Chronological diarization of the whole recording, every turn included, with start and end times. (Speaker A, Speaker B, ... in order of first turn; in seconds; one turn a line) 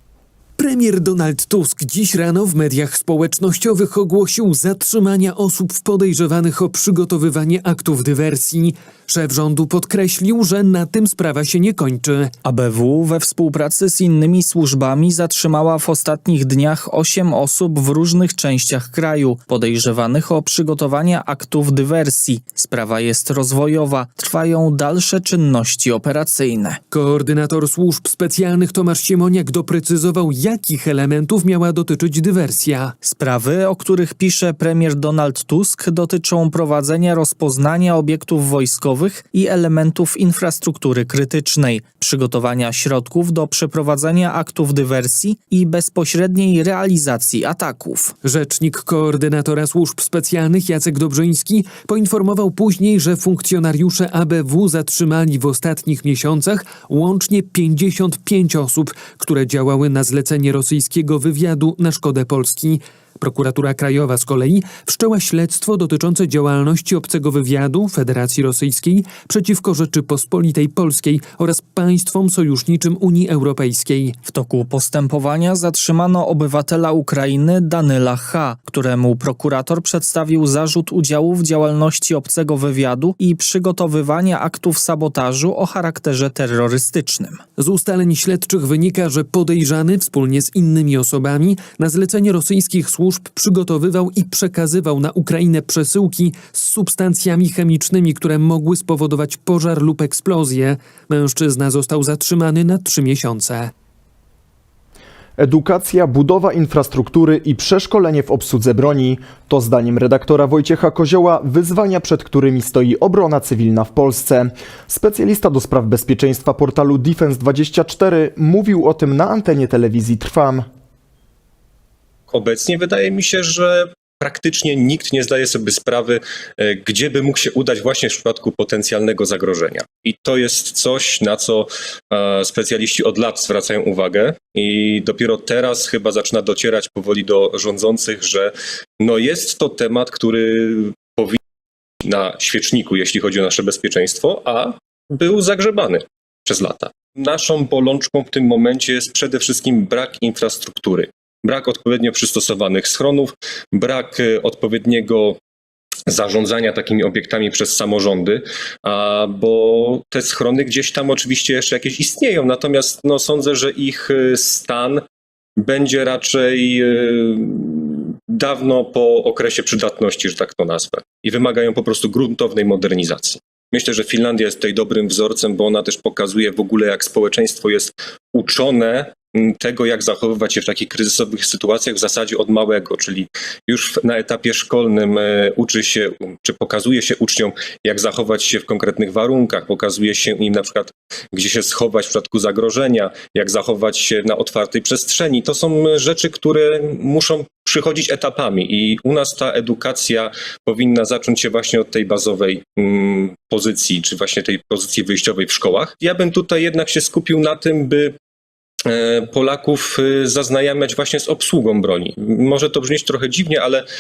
Speaker A: 0.6-12.3
Speaker B: 12.4-26.8
Speaker A: 26.9-33.0
Speaker B: 33.0-48.1
Speaker A: 48.2-74.2
Speaker B: 74.3-87.4
Speaker A: 87.6-103.7
Speaker C: 105.4-120.6
Speaker D: 122.3-141.4
Speaker D: 142.1-155.4
Speaker D: 156.1-165.0
Speaker D: 165.6-208.2
Speaker D: 208.9-213.8